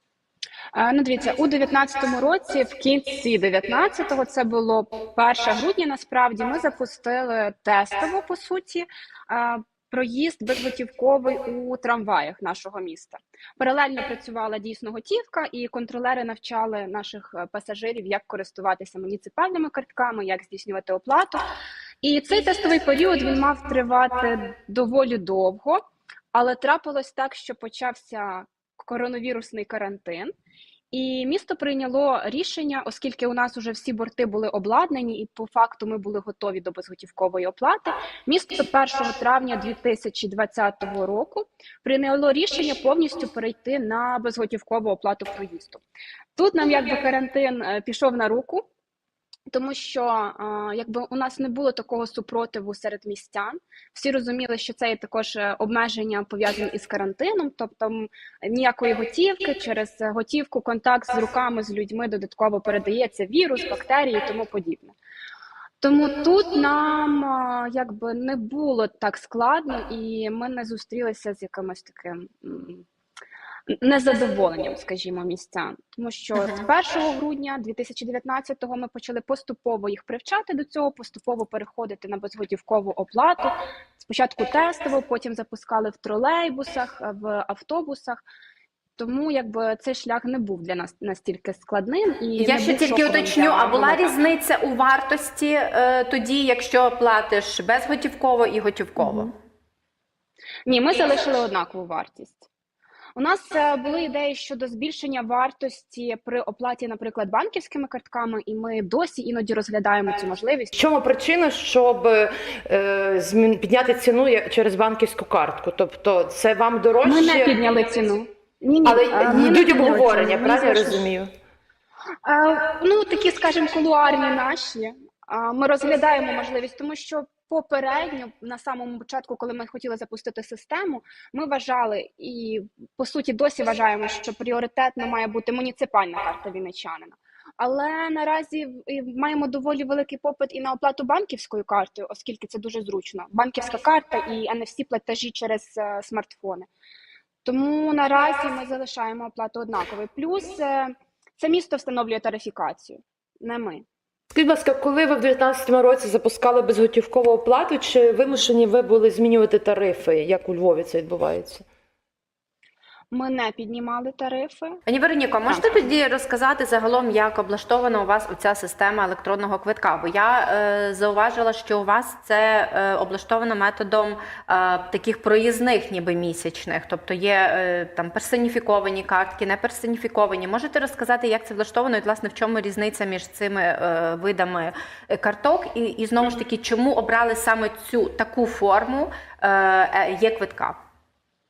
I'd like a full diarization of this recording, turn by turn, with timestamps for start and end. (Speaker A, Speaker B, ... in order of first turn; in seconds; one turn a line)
Speaker A: 0.7-21.4
Speaker A: 22.0-30.3
Speaker A: 30.9-45.8
Speaker A: 46.3-48.7
Speaker A: 49.5-64.9
Speaker A: 65.8-72.8
Speaker A: 73.7-88.2
Speaker A: 89.0-94.2
Speaker B: 92.4-99.3
Speaker A: 99.0-99.3
Speaker A: 100.6-102.5
Speaker A: 103.2-110.8
Speaker C: 110.7-117.5
Speaker A: 117.0-121.0
Speaker C: 118.8-121.3
Speaker A: 122.2-146.7
Speaker A: 147.4-153.8
Speaker C: 154.3-161.6
Speaker A: 163.1-164.8
Speaker B: 164.9-190.8
Speaker A: 165.5-165.9